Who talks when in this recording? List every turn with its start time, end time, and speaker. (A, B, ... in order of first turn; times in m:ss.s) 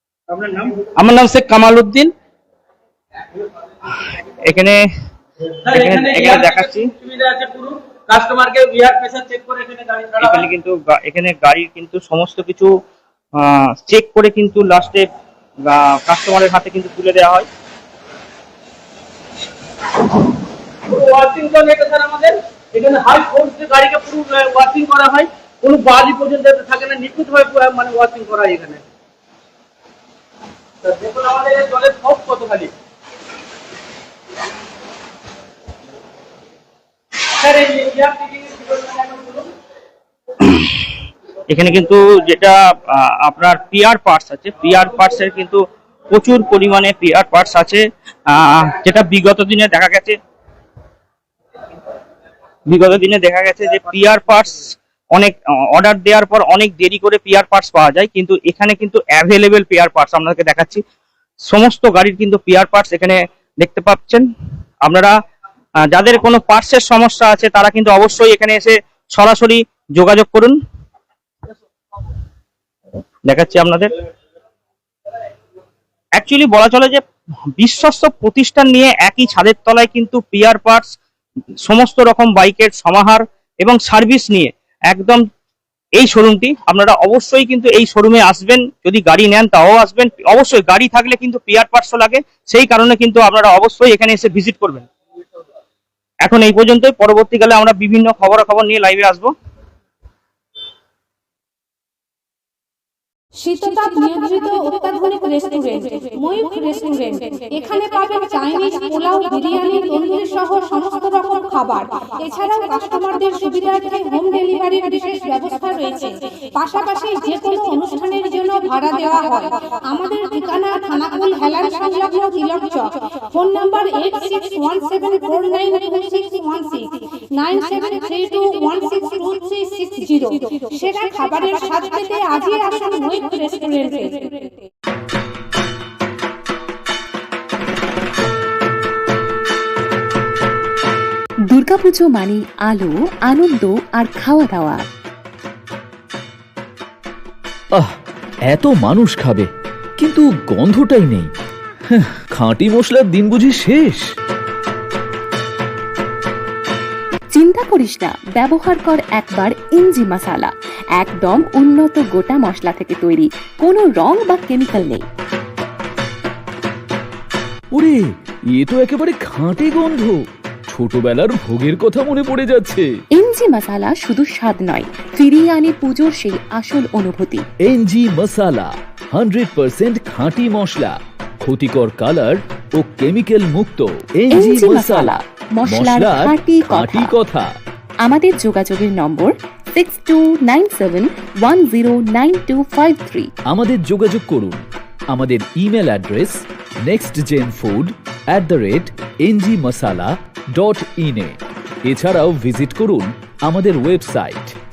0:00.4-0:02.1 A
0:04.4-0:04.8 B
0:05.7-0:10.5 A
0:05.7-0:06.9 B
0:10.2-0:12.7 B
0:13.4-0:15.1 B
0:15.7-0:17.5 B
0:20.9-0:28.8 A
0:30.9-0:32.7 A
0:37.4-0:39.5 A
0:41.5-0:45.6 B
0:46.1-0:50.2 B
0:52.7-1:00.8 B
1:01.5-1:04.2 B
1:04.8-1:05.1 B
1:05.9-1:10.6 B
1:13.3-1:13.9 B
1:16.2-1:17.0 B
1:17.6-1:20.9 B
1:21.6-1:25.2 B
1:26.0-1:34.9 B
1:36.3-1:39.3 B
1:43.4-2:14.6 C
2:21.5-2:24.8 D
2:28.5-2:31.3 E
2:31.9-2:34.0 E
2:37.3-2:45.0 D
2:47.7-2:48.0 E
2:48.5-2:52.9 E
2:53.2-2:57.5 D
2:57.6-3:07.5 E
3:04.3-3:07.2 D
3:08.0-3:13.3 D
3:13.5-3:24.5 E